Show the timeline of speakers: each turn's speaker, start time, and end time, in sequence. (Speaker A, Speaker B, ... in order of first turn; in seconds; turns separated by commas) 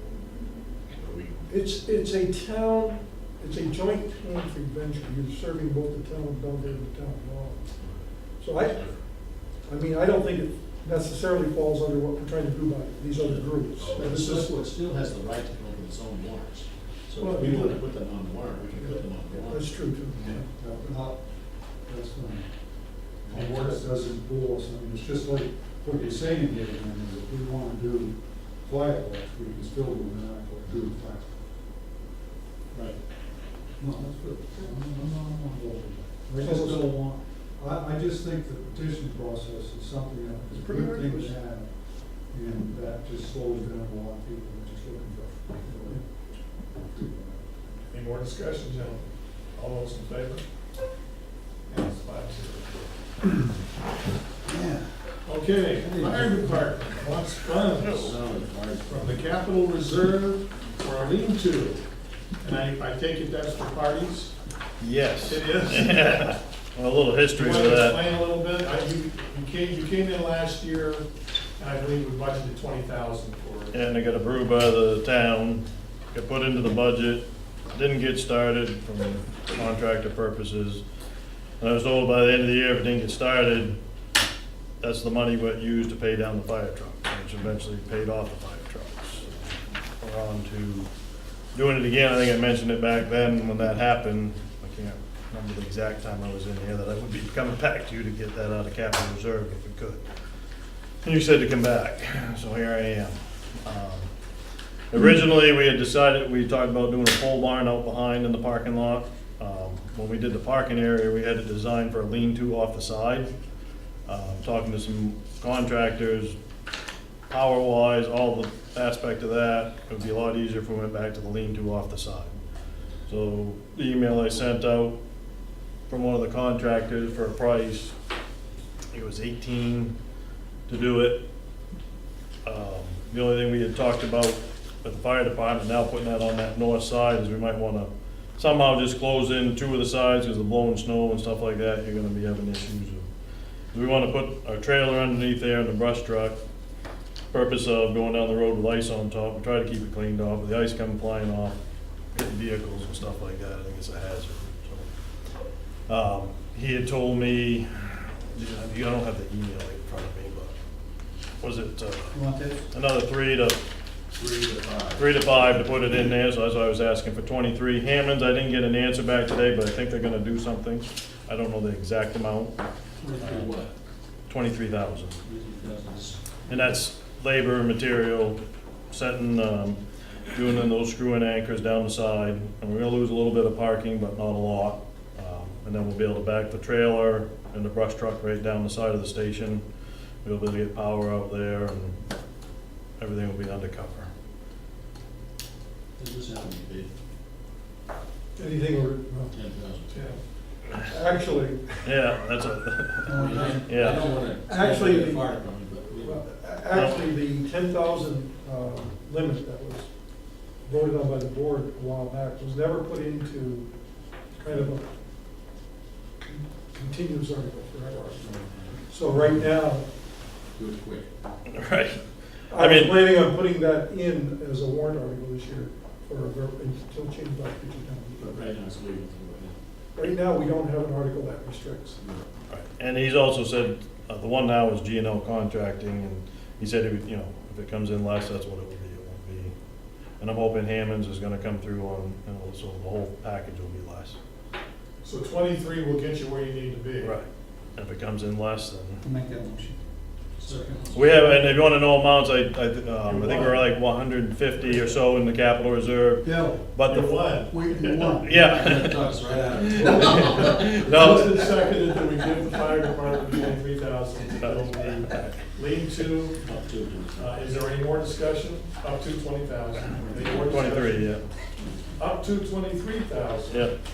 Speaker A: 0.9-1.4, Speaker B: 1.5-7.7, Speaker B: 8.4-14.3, Speaker A: 13.2-19.7, Speaker B: 17.2-17.6, Speaker C: 17.3-17.8, Speaker B: 19.0-20.5, Speaker C: 20.2-21.2, Speaker C: 21.8-22.5, Speaker C: 23.2-31.3, Speaker D: 23.3-23.9, Speaker A: 32.7-33.0, Speaker C: 33.8-46.0, Speaker B: 36.4-37.0, Speaker B: 40.5-41.3, Speaker C: 46.8-47.8, Speaker D: 47.9-50.4, Speaker D: 51.7-52.9, Speaker C: 54.4-55.0, Speaker D: 55.2-58.2, Speaker C: 55.8-56.6, Speaker A: 58.0-59.0, Speaker D: 58.8-61.8, Speaker D: 62.4-64.3, Speaker E: 64.8-68.0, Speaker D: 65.2-66.3, Speaker D: 67.3-71.0, Speaker D: 71.6-73.7, Speaker E: 73.7-80.8, Speaker E: 81.6-83.8, Speaker E: 84.8-89.3, Speaker E: 90.0-90.9, Speaker E: 91.5-100.0, Speaker E: 101.0-104.1, Speaker E: 104.9-113.3, Speaker E: 114.0-116.4, Speaker E: 117.3-122.4, Speaker E: 123.1-125.0, Speaker E: 125.9-127.9, Speaker E: 128.9-129.9, Speaker E: 130.7-131.2, Speaker E: 132.4-143.1, Speaker E: 143.7-146.4, Speaker E: 147.3-151.6, Speaker E: 152.1-154.9, Speaker E: 155.9-160.5, Speaker E: 161.4-162.2, Speaker C: 162.1-162.7, Speaker E: 162.7-163.6, Speaker A: 164.5-165.0, Speaker E: 164.9-172.5, Speaker A: 173.0-173.7, Speaker E: 173.2-173.5, Speaker E: 174.3-175.2, Speaker A: 175.2-176.2, Speaker E: 176.5-179.8, Speaker E: 180.3-189.6, Speaker E: 190.2-192.0, Speaker E: 193.0-194.1, Speaker A: 196.0-196.9, Speaker B: 198.4-199.3, Speaker A: 199.3-200.0, Speaker D: 199.9-200.2, Speaker B: 200.8-201.9, Speaker E: 201.8-204.1, Speaker C: 203.1-203.7, Speaker A: 203.1-206.2, Speaker B: 204.4-209.9, Speaker E: 206.7-207.1, Speaker B: 210.6-213.7, Speaker B: 214.3-214.8, Speaker B: 216.2-218.3, Speaker A: 218.2-218.8, Speaker B: 218.9-219.8, Speaker A: 220.6-221.1, Speaker E: 221.5-222.0, Speaker B: 222.5-228.4, Speaker E: 222.5-223.1, Speaker A: 228.2-229.6, Speaker B: 229.9-232.0, Speaker A: 232.0-232.2, Speaker E: 232.5-239.5, Speaker E: 240.2-244.2, Speaker D: 245.0-247.2, Speaker E: 247.0-247.2, Speaker E: 247.8-249.0, Speaker C: 249.0-249.8, Speaker A: 250.4-251.3, Speaker E: 250.9-257.3, Speaker D: 253.0-253.6, Speaker C: 256.2-256.6, Speaker D: 256.9-258.1, Speaker C: 257.5-258.5, Speaker E: 258.2-259.1, Speaker A: 258.3-260.8, Speaker E: 259.6-261.5, Speaker D: 259.7-266.4, Speaker E: 264.4-265.4, Speaker A: 266.4-267.3, Speaker D: 267.1-271.1, Speaker E: 270.3-271.2, Speaker D: 272.0-273.7